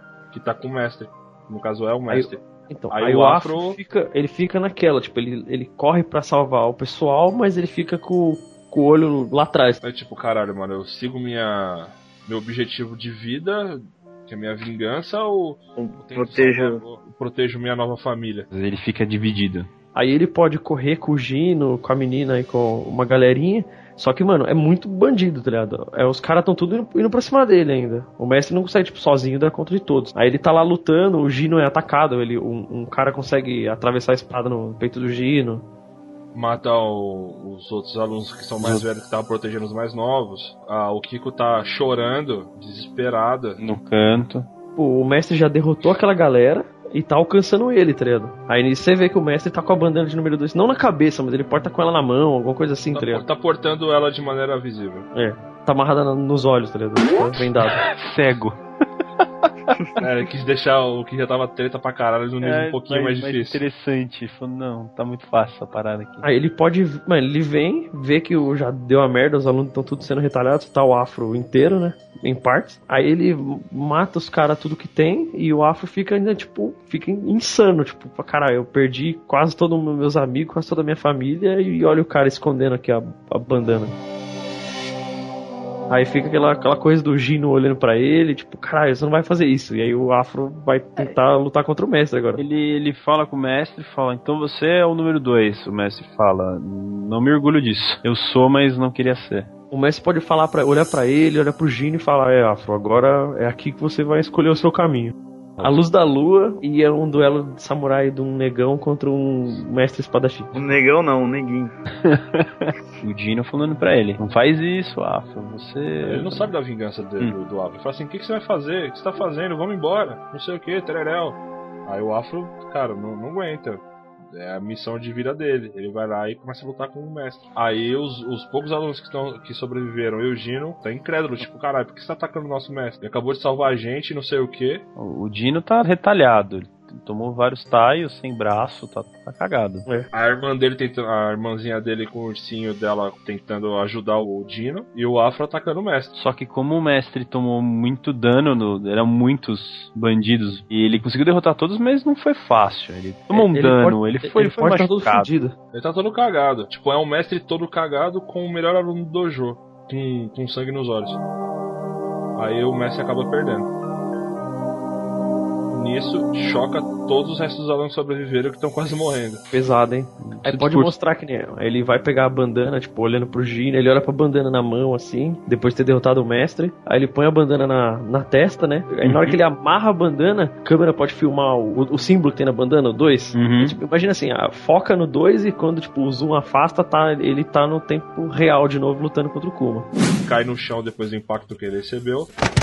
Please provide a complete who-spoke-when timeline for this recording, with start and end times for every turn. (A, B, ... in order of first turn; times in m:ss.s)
0:00.3-0:03.8 A
0:02.1-0:09.8 B
0:09.8-0:18.5 A
0:15.8-0:16.8 C
0:18.5-0:19.7 D
0:20.0-0:35.6 B
0:36.3-0:43.6 A
0:38.6-0:38.9 D
0:43.6-0:44.5 D
0:44.8-0:53.2 B
0:52.9-0:55.1 A
0:55.1-0:57.8 B
0:57.4-0:58.6 D
0:59.2-0:59.5 D
1:00.0-1:03.6 A
1:02.4-1:06.2 D
1:06.2-1:24.0 B
1:25.9-1:32.4 B
1:32.4-1:39.5 D
1:39.7-1:50.5 B
1:50.5-1:51.7 C
1:52.0-1:56.5 D
1:56.0-2:14.8 A
2:15.0-2:19.8 D
2:20.1-2:26.1 A
2:26.2-2:35.3 D
2:33.3-2:35.6 B
2:35.7-2:41.2 A
2:42.4-2:43.7 A
2:45.7-2:49.5 A
2:49.5-3:09.9 B
2:50.2-2:50.9 D
2:59.0-2:59.4 D
3:03.3-3:03.8 D
3:10.2-3:12.3 A